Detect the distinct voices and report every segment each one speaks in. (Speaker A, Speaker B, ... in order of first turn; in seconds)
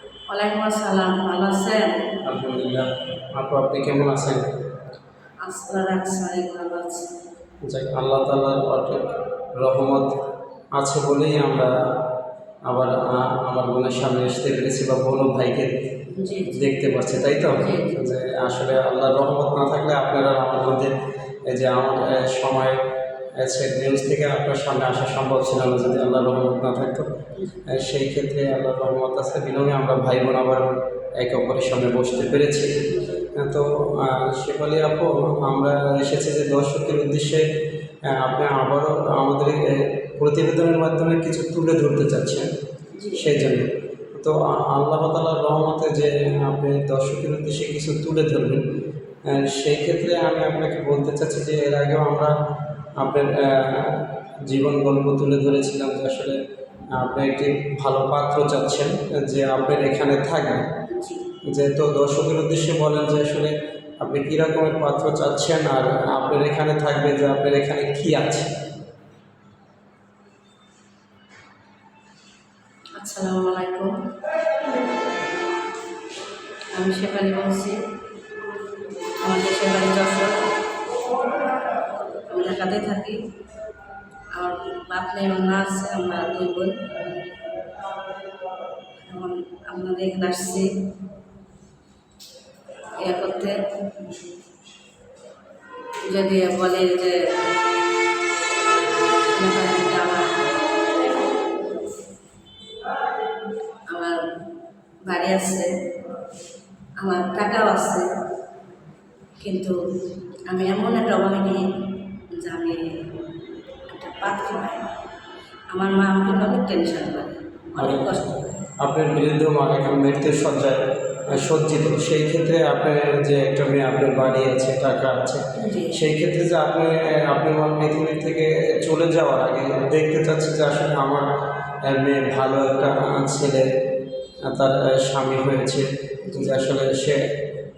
Speaker A: 0.3-2.1, 5.4-7.1, 16.1-16.7, 17.5-18.0, 43.0-43.3, 60.9-61.3, 73.0-73.9, 76.7-77.8, 79.2-80.4, 82.3-83.2, 84.3-86.8, 89.0-90.7, 93.0-93.6, 96.1-97.2, 99.3-100.4, 103.9-104.2, 105.1-105.7, 107.0-108.0, 109.4-109.8, 110.5-113.2, 113.9-114.9, 115.7-118.6, 125.6-126.0, 136.3-136.7
Speaker B: 2.2-4.4, 7.7-10.1, 10.8-11.7, 12.7-15.7, 16.5-20.9, 21.5-22.8, 23.4-27.1, 27.7-30.6, 31.2-37.5, 38.1-42.5, 43.1-48.6, 49.3-52.3, 53.0-56.4, 56.9-60.6, 61.5-68.5, 117.8-118.1, 118.8-125.4, 125.9-131.3, 131.9-133.7, 134.5-137.2